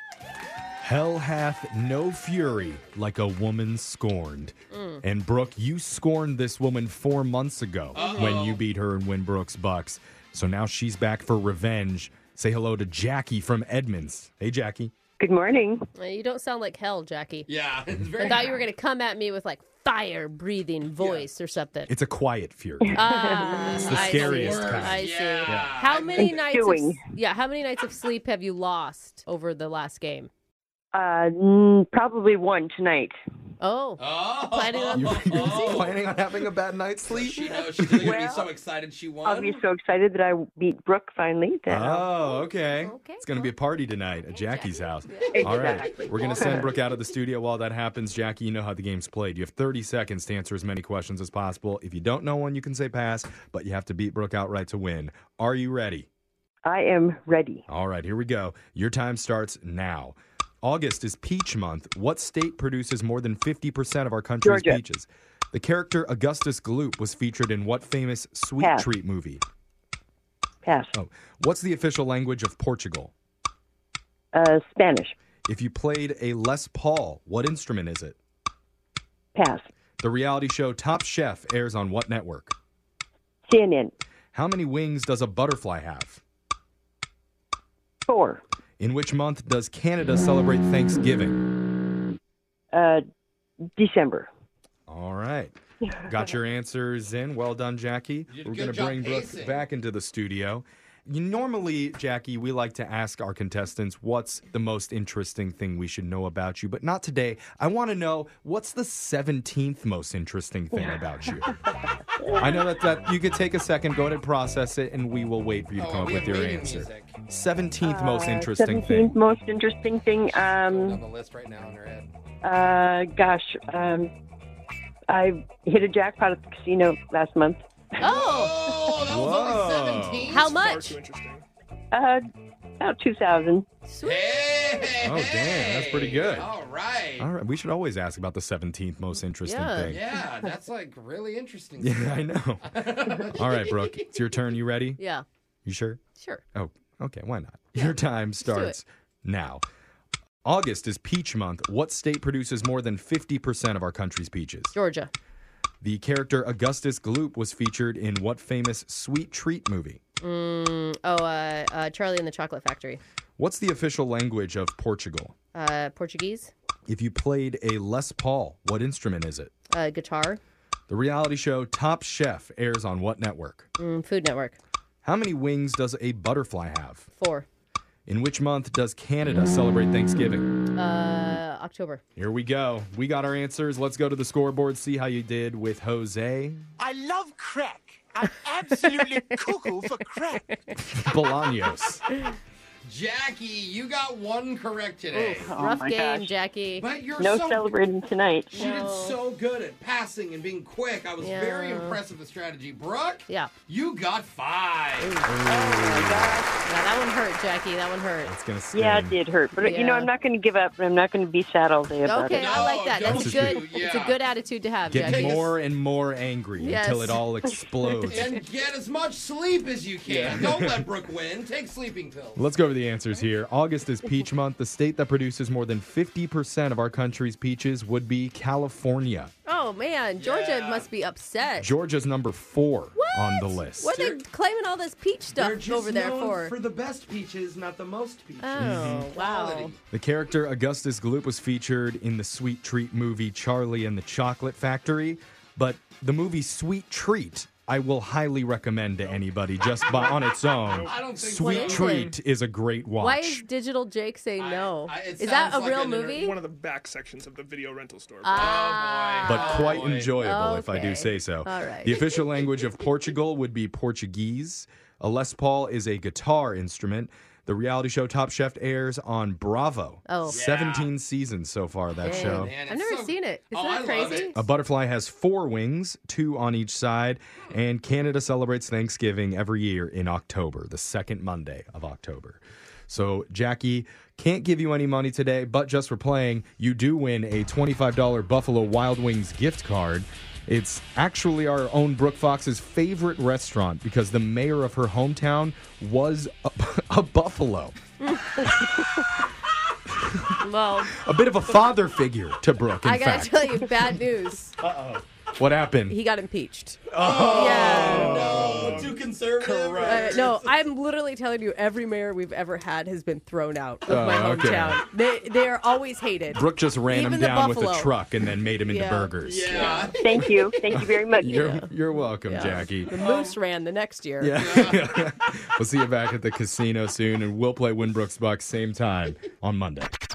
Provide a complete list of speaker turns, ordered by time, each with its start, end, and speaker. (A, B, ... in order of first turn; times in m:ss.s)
0:00.8-0:14.9 A
0:04.7-0:05.0 B
0:07.9-0:08.6 C
0:08.0-0:08.3 B
0:15.2-0:15.9 D
0:16.0-0:17.5 B
0:17.5-0:18.6 C
0:18.2-0:21.9 B
0:21.0-0:21.3 C
0:21.9-0:23.0 A
0:22.8-0:23.8 D
0:22.9-0:30.3 B
0:23.8-0:25.7 A
0:23.8-0:26.4 C
0:26.3-0:27.0 D
0:30.9-0:33.1 D
0:33.6-0:35.8 B
0:34.0-0:36.0 C
0:34.9-0:38.2 A
0:37.1-0:39.6 C
0:38.0-0:38.5 D
0:39.2-0:42.1 D
0:41.7-0:56.1 A
0:42.3-0:43.5 B
0:44.3-0:45.6 B
0:45.3-0:46.7 D
0:46.3-0:46.6 C
0:56.6-0:57.6 D
0:57.7-1:09.4 A
1:04.4-1:04.8 D
1:08.6-1:08.9 D
1:10.6-1:10.9 D
1:10.9-1:13.1 A
1:14.3-1:15.1 D
1:15.4-1:18.2 A
1:19.3-1:19.6 D
1:20.0-1:22.5 A
1:23.4-1:23.9 D
1:24.3-1:26.2 A
1:28.1-1:28.4 D
1:28.8-1:31.5 A
1:32.7-1:33.0 D
1:33.8-1:34.3 D
1:34.9-1:51.6 A
1:35.8-1:36.1 D
1:38.3-1:39.6 C
1:52.4-1:59.1 A
1:55.8-1:57.1 C
1:57.8-2:01.0 D
2:00.6-2:02.1 C
2:02.4-2:04.1 D
2:05.1-2:08.8 D
2:08.0-2:08.6 B
2:08.0-2:10.5 C
2:09.0-2:10.4 A
2:10.3-2:11.0 B
2:10.3-2:11.4 E
2:11.9-2:12.2 D
2:12.8-2:13.6 D
2:13.9-2:14.5 B
2:14.0-2:17.3 C
2:15.0-2:16.5 A
2:17.2-2:20.0 A
2:19.4-2:19.9 B
2:19.8-2:24.2 C
2:21.8-2:22.8 A
2:23.3-2:25.0 A
2:25.0-2:25.2 B
2:25.6-2:26.0 A
2:26.2-2:26.4 B
2:26.5-2:29.6 A
2:27.8-2:28.8 B
2:30.4-2:34.7 A
2:34.7-2:35.1 B
2:35.8-2:40.0 A
2:40.2-2:43.0 B
2:43.4-2:45.3 A
2:45.5-2:46.5 B
2:46.9-2:49.5 A
2:49.7-2:50.4 B
2:50.9-2:53.7 A
2:53.8-2:54.6 B
2:55.0-2:57.1 A
2:57.1-2:57.4 B
2:58.1-3:00.6 A
3:00.7-3:02.0 B
3:02.2-3:06.6 A
3:06.8-3:10.4 F
3:08.8-3:09.9 B
3:10.8-3:12.0 A
3:12.8-3:15.5 C
3:15.1-3:16.8 B
3:15.4-3:16.3 D
3:16.8-3:17.8 C
3:17.2-3:18.6 D
3:18.5-3:25.2 C
3:18.5-3:19.2 B
3:21.2-3:22.0 B
3:25.0-3:25.3 B
3:25.2-3:26.4 A
3:25.5-3:26.4 D
3:26.6-3:28.3 B
3:28.2-3:29.1 A
3:28.7-3:32.7 D
3:29.6-3:30.1 B
3:32.0-3:35.5 B
3:32.3-3:34.2 C
3:33.0-3:33.6 A
3:34.9-3:38.3 A
3:34.9-3:35.5 C
3:36.6-3:37.2 B
3:38.0-3:42.4 C
3:40.1-3:40.8 A
3:42.4-3:49.3 A
3:49.4-3:51.7 B
3:50.2-3:50.9 C
3:51.6-3:54.0 A
3:53.0-3:56.6 B
3:53.9-3:54.2 C
3:55.3-3:59.8 C
3:58.4-3:59.7 B
3:58.6-3:59.1 A
3:59.9-4:13.4 A
4:09.8-4:11.0 E
4:10.8-4:11.9 C
4:11.4-4:12.1 B
4:13.0-4:16.4 B
4:14.4-4:16.2 C
4:16.2-4:18.5 E
4:18.2-4:22.0 B
4:18.3-4:20.1 C
4:19.2-4:32.5 A
4:30.1-4:30.4 B
4:30.3-4:30.9 C
4:32.0-4:34.4 C
4:32.0-4:34.4 B
4:34.0-4:57.7 A
4:58.0-4:58.5 B
5:00.0-5:00.4 A
5:00.4-5:00.9 B
5:01.0-5:03.6 A
5:02.8-5:04.5 B
5:04.6-5:05.0 C
5:05.4-5:06.0 A
5:05.8-5:08.8 B
5:06.9-5:08.7 A
5:06.9-5:10.6 C
5:08.0-5:09.0 E
5:09.4-5:17.9 B
5:13.9-5:14.8 A
5:16.3-5:19.7 A
5:18.6-5:19.9 B
5:19.2-5:20.7 C
5:19.6-5:21.5 D
5:20.7-5:22.9 A
5:21.2-5:21.7 B
5:22.2-5:24.3 B
5:22.9-5:23.4 C
5:24.2-5:29.9 A
5:24.4-5:24.9 C